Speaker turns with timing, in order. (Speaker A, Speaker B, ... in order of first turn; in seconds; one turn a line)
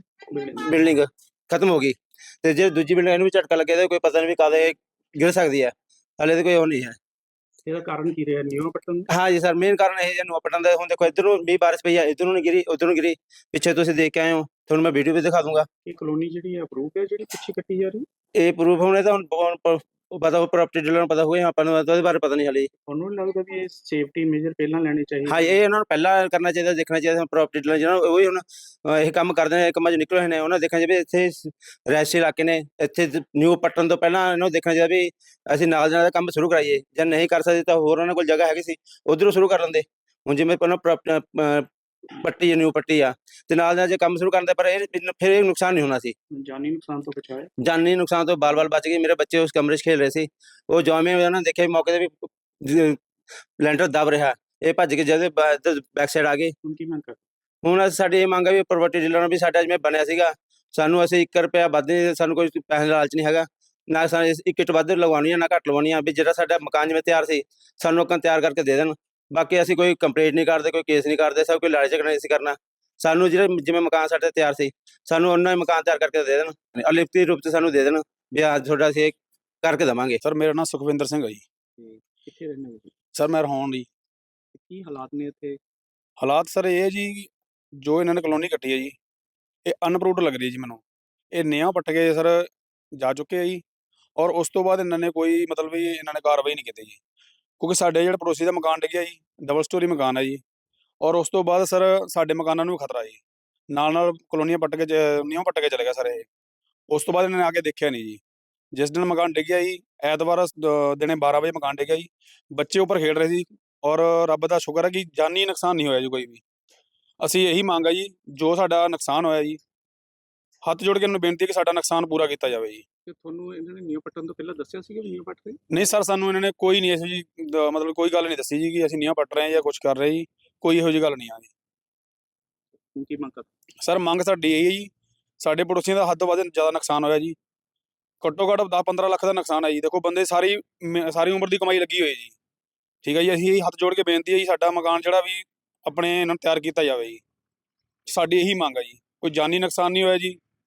Speaker A: 0.3-0.8
Speaker B: 0.5-7.0
Speaker A: 7.6-9.1
Speaker B: 9.1-15.7
Speaker A: 15.8-18.1
Speaker B: 18.4-22.7
Speaker A: 22.9-25.6
Speaker B: 25.2-41.7
Speaker B: 42.2-46.1
Speaker A: 46.3-47.5
Speaker B: 47.6-53.0
Speaker B: 53.6-56.5
Speaker A: 56.6-57.2
Speaker B: 57.6-80.2
Speaker C: 80.2-81.4
Speaker A: 81.8-82.9
Speaker C: 83.1-83.9
Speaker A: 84.5-85.6
Speaker C: 86.2-87.3
Speaker C: 87.8-89.0
Speaker C: 89.7-93.6
Speaker C: 94.2-97.0
Speaker C: 97.6-100.4
Speaker C: 101.0-106.3
Speaker C: 106.9-108.2
Speaker C: 108.7-116.4
Speaker C: 117.2-119.6
Speaker C: 120.6-122.8
Speaker A: 123.0-125.6
Speaker C: 125.7-131.5
Speaker A: 132.9-133.5
Speaker C: 133.8-134.9
Speaker C: 135.4-137.3
Speaker C: 138.2-142.3
Speaker C: 143.0-147.2
Speaker C: 148.1-150.4